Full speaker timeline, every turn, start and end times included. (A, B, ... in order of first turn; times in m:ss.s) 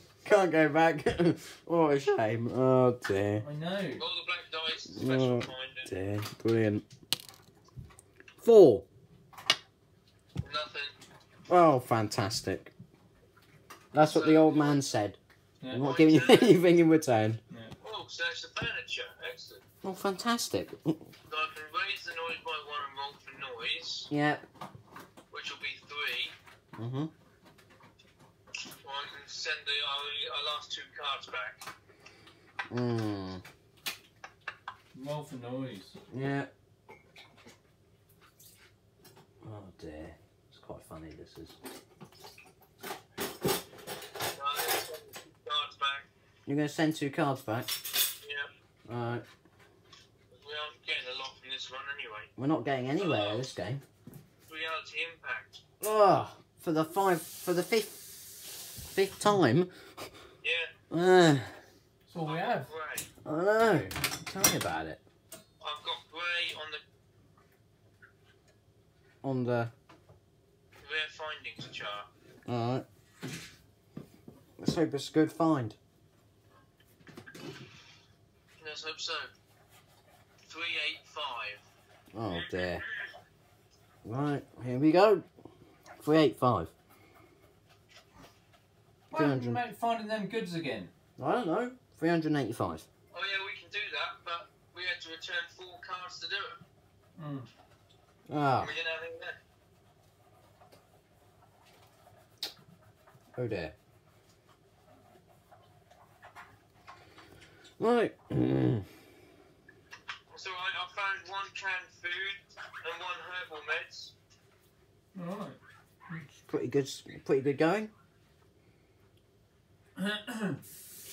0:00.2-0:03.4 A
0:03.4-0:04.0 B
0:04.0-0:05.9 C
0:04.9-0:06.8 A
0:08.4-0:08.8 A
0:10.4-0:11.0 C
0:11.5-0:12.7 A
0:13.9-0:15.2 A
0:14.0-0:14.9 C
0:15.6-0:15.9 B
0:15.7-0:17.4 A
0:15.7-0:16.6 C
0:17.8-0:19.6 C
0:19.8-0:21.0 A
0:21.3-0:24.1 C
0:24.1-0:24.4 A
0:25.3-0:26.4 C
0:26.8-0:27.1 A
0:28.8-0:31.6 C
0:32.7-0:33.4 A
0:34.9-0:36.0 B
0:36.1-0:36.5 A
0:39.4-0:41.6 A
0:44.3-0:46.1 C
0:46.5-0:47.7 A
0:48.2-0:48.5 C
0:48.9-0:49.2 A
0:50.3-0:52.3 C
0:52.4-0:53.8 A
0:53.0-0:53.4 C
0:54.5-0:55.6 C
0:55.8-0:58.1 A
0:58.8-0:59.7 A
1:00.4-1:00.7 C
1:00.9-1:01.6 A
1:02.1-1:02.7 B
1:02.2-1:03.1 C
1:03.2-1:05.0 A
1:05.6-1:06.8 C
1:09.2-1:09.7 A
1:10.8-1:12.1 C
1:12.5-1:12.8 A
1:14.6-1:15.8 A
1:18.6-1:19.3 C
1:20.4-1:21.7 C
1:22.1-1:22.8 A
1:22.3-1:23.1 C
1:24.0-1:25.2 A
1:26.0-1:26.7 A
1:29.1-1:30.9 B
1:29.1-1:29.6 A
1:31.2-1:32.8 A
1:33.1-1:36.6 C
1:37.2-1:37.5 B
1:38.3-1:38.7 A
1:38.6-1:39.4 C
1:43.4-1:43.7 A
1:47.8-1:48.9 A
1:50.3-1:54.1 C
1:55.2-1:55.6 B
1:56.3-1:57.9 A
2:00.0-2:00.6 B